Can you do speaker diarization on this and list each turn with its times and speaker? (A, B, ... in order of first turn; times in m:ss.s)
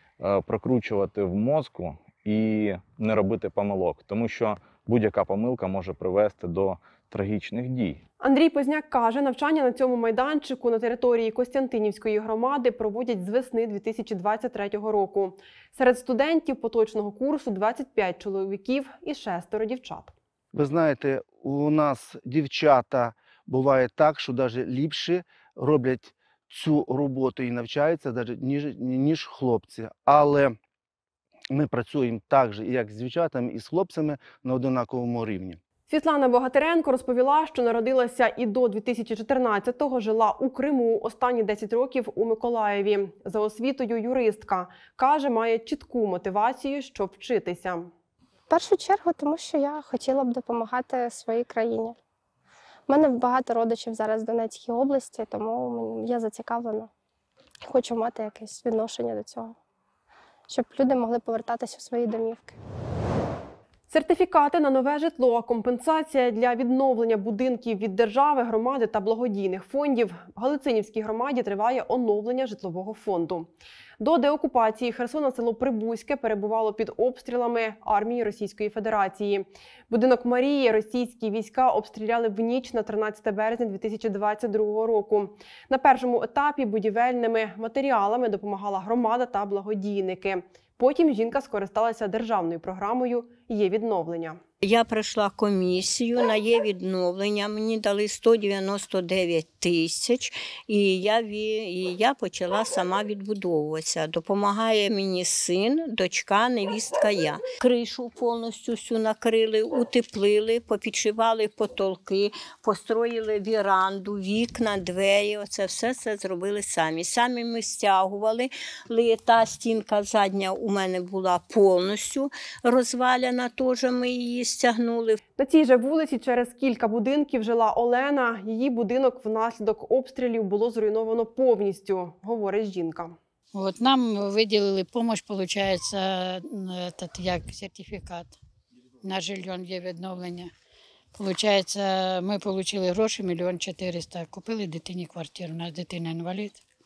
0:00.2-0:08.0 A
0:08.2-0:20.1 B
0:20.5-0:30.6 C
0:31.5-0:35.6 C
0:35.9-0:47.9 B
0:48.5-0:52.0 D
0:52.9-0:56.9 D
0:57.6-0:59.5 D
1:00.5-1:02.5 D
1:03.9-1:34.4 B
1:34.6-2:05.2 E
2:05.4-2:13.2 B
2:13.5-2:18.3 F
2:19.0-2:20.5 F
2:21.1-2:26.6 F